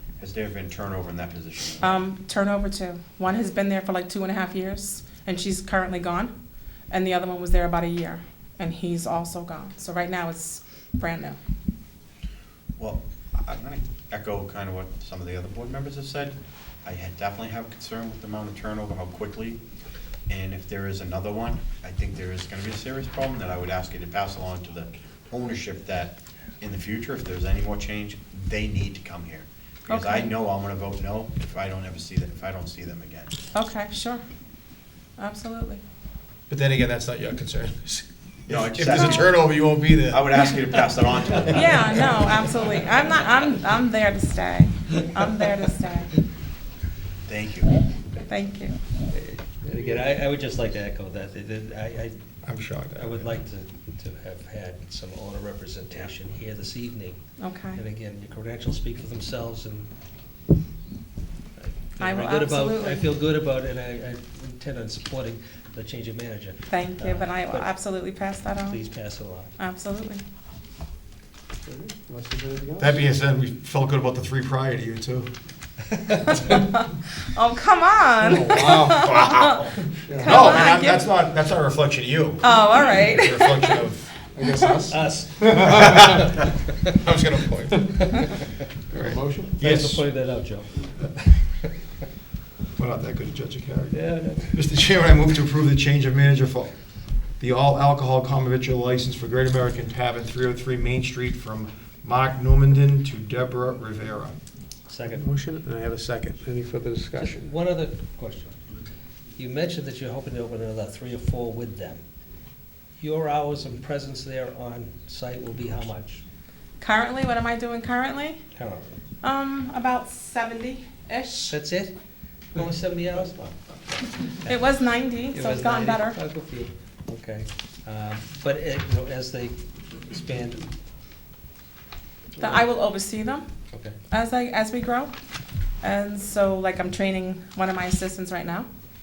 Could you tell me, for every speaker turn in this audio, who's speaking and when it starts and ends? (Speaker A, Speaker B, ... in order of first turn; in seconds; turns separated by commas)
Speaker A: 0.2-2.0, Speaker B: 1.8-6.3, Speaker B: 6.9-11.4, Speaker A: 12.8-19.6, Speaker A: 20.3-33.3, Speaker B: 29.9-30.3, Speaker B: 33.5-34.2, Speaker B: 35.2-35.8, Speaker C: 36.5-40.9, Speaker A: 38.5-42.4, Speaker B: 38.9-39.2, Speaker B: 41.4-46.1, Speaker A: 47.2-47.7, Speaker B: 48.2-48.8, Speaker D: 49.1-52.1, Speaker C: 52.4-53.3, Speaker D: 53.0-57.2, Speaker B: 57.4-57.8, Speaker D: 57.7-59.9, Speaker D: 61.6-67.7, Speaker B: 62.0-63.1, Speaker B: 66.7-68.8, Speaker D: 68.6-69.5, Speaker B: 69.6-70.2, Speaker E: 71.7-72.8, Speaker C: 72.8-75.3, Speaker B: 76.3-81.0, Speaker E: 78.3-78.9, Speaker C: 78.5-84.1, Speaker E: 80.1-80.4, Speaker B: 82.4-83.8, Speaker E: 84.3-84.9, Speaker D: 84.7-86.5, Speaker C: 85.6-86.3, Speaker C: 86.8-88.1, Speaker D: 88.0-88.3, Speaker C: 88.9-90.0, Speaker E: 89.1-89.5, Speaker D: 89.6-91.5, Speaker C: 92.8-96.7, Speaker D: 93.9-94.5, Speaker C: 97.4-104.3, Speaker D: 104.9-105.2, Speaker E: 105.2-107.5, Speaker D: 107.1-108.6, Speaker D: 109.3-112.0, Speaker D: 113.0-116.2, Speaker B: 116.8-118.4, Speaker D: 118.5-118.9, Speaker B: 119.2-121.6, Speaker D: 121.5-121.9, Speaker D: 122.5-124.5, Speaker B: 124.4-126.2, Speaker D: 125.3-130.7, Speaker B: 132.4-133.4, Speaker D: 133.7-134.0, Speaker B: 134.1-135.1, Speaker B: 135.8-138.7